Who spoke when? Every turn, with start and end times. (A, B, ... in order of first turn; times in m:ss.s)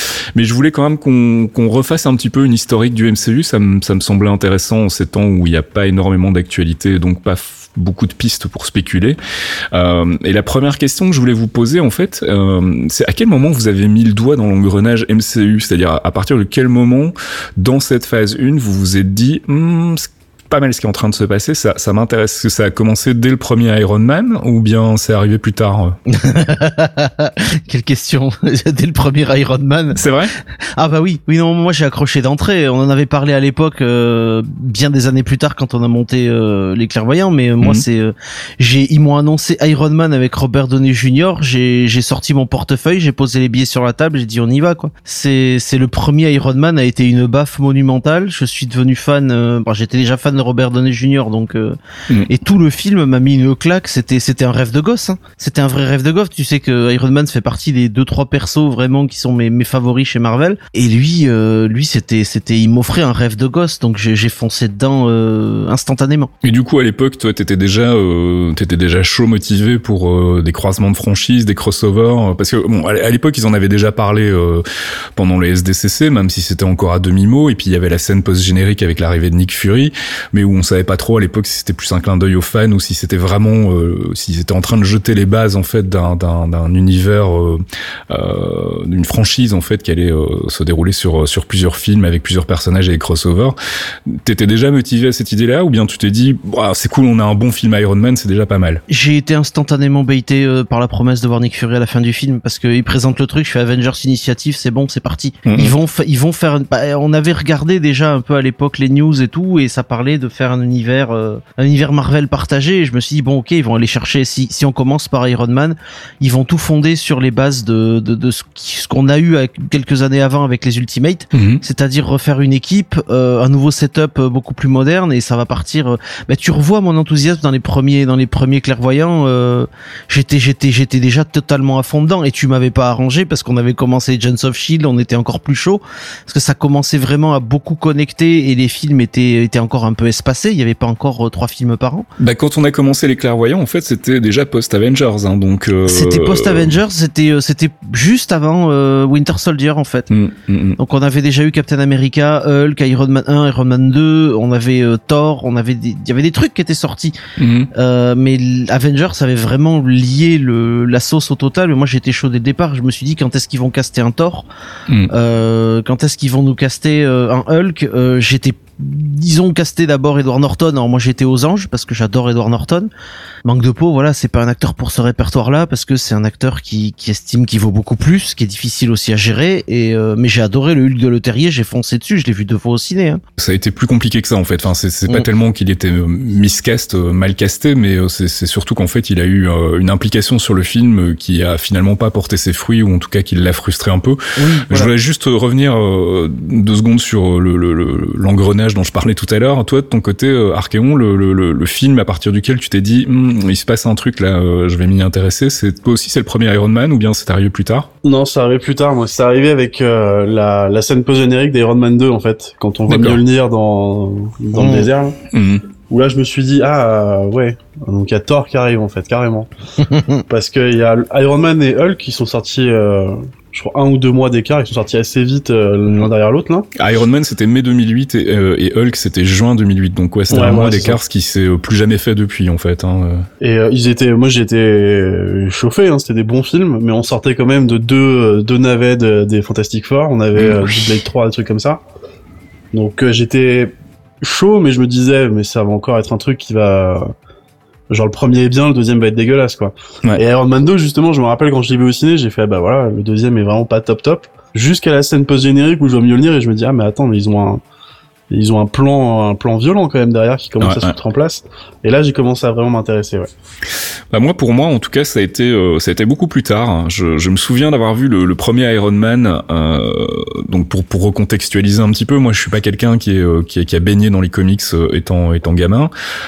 0:00.3-0:09.2 A
0:09.7-0:26.0 A
0:26.1-0:30.0 B
0:29.9-0:30.3 A
0:30.8-0:51.8 B
0:52.3-1:06.3 B
1:06.4-1:14.6 A
1:15.2-1:33.6 A
1:34.1-1:38.8 A
1:38.9-2:22.1 B
1:45.4-1:45.7 A
2:01.3-2:01.6 A
2:22.2-2:26.7 A
2:25.8-2:30.1 B
2:30.1-2:30.8 A
2:30.8-2:37.2 B
2:37.4-2:37.7 A
2:37.7-2:44.5 B
2:45.1-2:52.9 B
2:53.4-3:03.2 B
3:03.4-3:14.2 A
3:14.4-3:14.9 B
3:14.7-3:27.9 A
3:28.0-3:35.2 C
3:32.9-3:33.2 A
3:34.5-3:34.9 B
3:35.3-3:35.6 A
3:35.9-3:39.5 C
3:39.9-3:40.2 B
3:40.3-3:46.7 C
3:46.8-3:53.2 A
3:50.3-3:51.0 C
3:53.4-4:01.8 C
4:00.4-4:00.9 A
4:02.7-4:07.1 C
4:07.9-4:17.6 C
4:18.3-4:23.3 C
4:20.6-4:20.9 A
4:24.1-4:35.9 A